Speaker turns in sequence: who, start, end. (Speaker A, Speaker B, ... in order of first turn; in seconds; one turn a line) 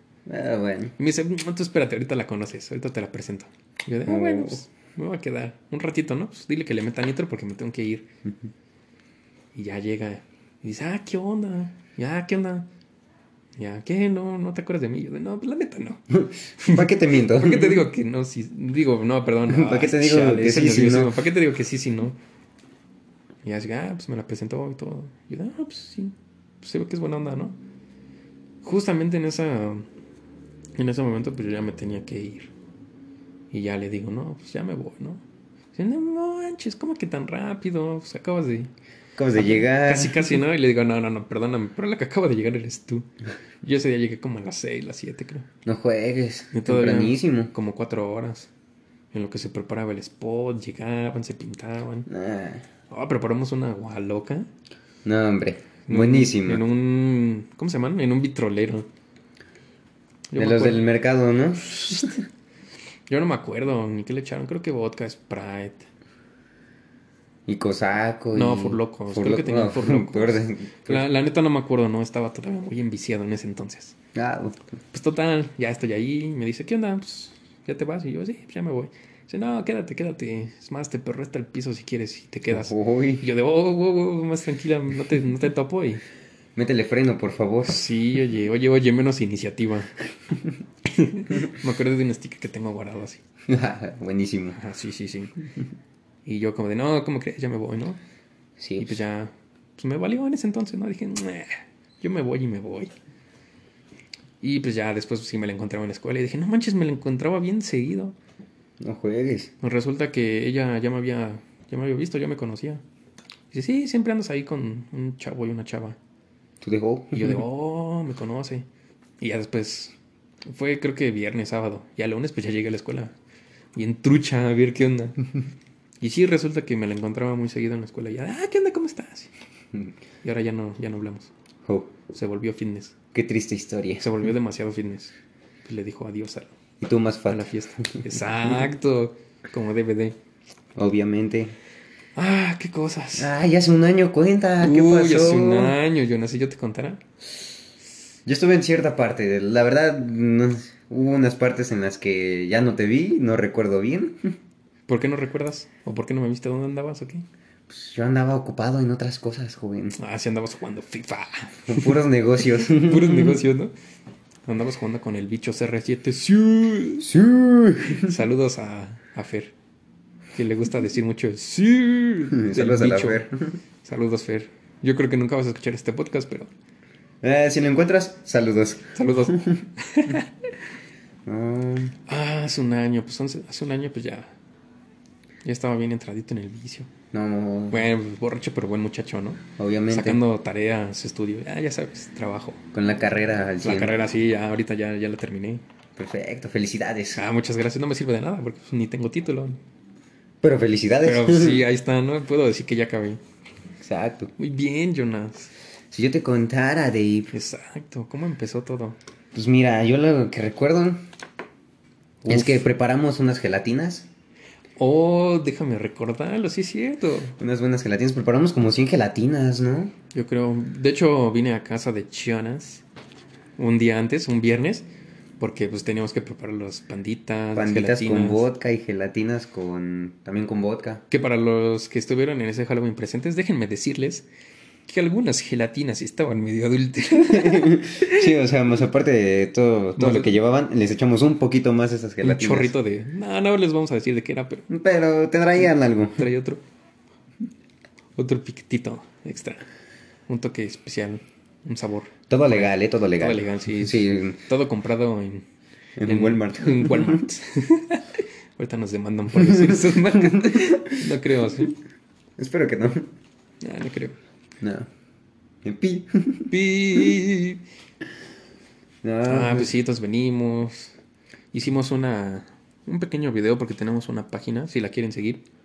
Speaker A: 0.3-0.9
Speaker B: 1.0-8.1
Speaker A: 4.0-4.6
Speaker B: 9.5-12.7
Speaker B: 13.6-16.1
Speaker A: 16.1-17.9
Speaker B: 16.6-22.2
Speaker A: 19.5-21.1
Speaker B: 23.4-27.6
Speaker B: 28.6-29.9
Speaker B: 30.8-32.5
Speaker B: 33.5-35.2
Speaker B: 35.7-38.7
Speaker A: 39.2-40.4
Speaker B: 39.3-43.1
Speaker B: 43.6-45.5
Speaker A: 45.6-47.5
Speaker B: 46.5-48.5
Speaker B: 49.1-52.1
Speaker A: 52.1-52.6
Speaker B: 52.9-54.5
Speaker A: 55.0-56.6
Speaker B: 55.9-58.9
Speaker B: 60.3-60.8
Speaker A: 60.4-62.1
Speaker B: 61.8-62.1
Speaker B: 63.1-65.8
Speaker A: 67.5-71.1
Speaker B: 68.3-73.9
Speaker A: 74.1-74.6
Speaker B: 74.9-86.0
Speaker A: 82.5-83.2
Speaker A: 86.5-87.8
Speaker B: 87.7-89.9
Speaker B: 90.8-93.2
Speaker A: 93.5-94.6
Speaker B: 94.5-95.3
Speaker B: 96.2-98.0
Speaker A: 98.6-99.0
Speaker B: 98.8-102.9
Speaker B: 104.4-108.2
Speaker A: 108.8-109.5
Speaker B: 109.6-112.8
Speaker B: 113.5-116.0
Speaker A: 116.6-117.4
Speaker B: 117.1-118.7
Speaker B: 119.2-119.9
Speaker B: 120.5-123.1
Speaker B: 123.7-125.2
Speaker B: 126.0-129.3
Speaker B: 130.2-131.3
Speaker A: 131.7-131.9
Speaker B: 132.1-132.9
Speaker A: 133.1-134.1
Speaker B: 134.0-135.1
Speaker B: 135.6-136.5
Speaker A: 136.8-138.7
Speaker B: 137.3-140.2
Speaker A: 140.8-141.5
Speaker B: 142.2-143.3
Speaker A: 143.2-145.8
Speaker B: 144.6-147.0
Speaker A: 148.2-154.3
Speaker B: 154.9-157.2
Speaker A: 157.7-159.9
Speaker B: 159.9-162.0
Speaker A: 161.7-163.4
Speaker B: 162.6-163.7
Speaker B: 164.4-167.1
Speaker A: 167.0-168.2
Speaker B: 167.9-169.5
Speaker B: 170.3-173.2
Speaker A: 172.3-173.6
Speaker B: 173.8-176.5
Speaker A: 177.2-179.6
Speaker B: 178.9-180.3
Speaker A: 181.2-181.9
Speaker B: 182.1-184.3
Speaker B: 185.4-186.9
Speaker A: 187.1-187.9
Speaker B: 187.7-192.6
Speaker A: 189.6-190.2
Speaker A: 192.7-194.0
Speaker B: 193.6-195.6
Speaker A: 196.0-197.2
Speaker B: 197.1-199.6
Speaker A: 200.4-201.6
Speaker B: 201.0-203.2
Speaker A: 203.8-204.3
Speaker B: 204.4-205.5
Speaker A: 205.9-207.3
Speaker B: 207.3-209.0
Speaker A: 209.3-211.0
Speaker B: 212.2-212.7
Speaker A: 212.3-214.1
Speaker B: 214.8-217.4
Speaker A: 217.4-219.9
Speaker B: 220.1-222.8
Speaker B: 223.6-224.8
Speaker B: 225.4-228.4
Speaker A: 227.5-231.0
Speaker B: 231.1-234.2
Speaker B: 234.8-238.3
Speaker A: 237.2-242.7
Speaker B: 239.9-240.3
Speaker B: 242.2-244.7
Speaker A: 244.7-246.3
Speaker B: 246.2-246.6
Speaker B: 248.2-249.6
Speaker B: 250.3-255.4
Speaker A: 252.3-254.4
Speaker A: 256.0-257.2
Speaker B: 256.0-261.7
Speaker A: 259.3-261.1
Speaker A: 262.4-263.1
Speaker B: 263.6-264.2
Speaker A: 264.6-264.9
Speaker A: 265.6-266.5
Speaker B: 266.5-267.6
Speaker A: 269.0-269.7
Speaker B: 269.3-270.9
Speaker B: 271.5-275.4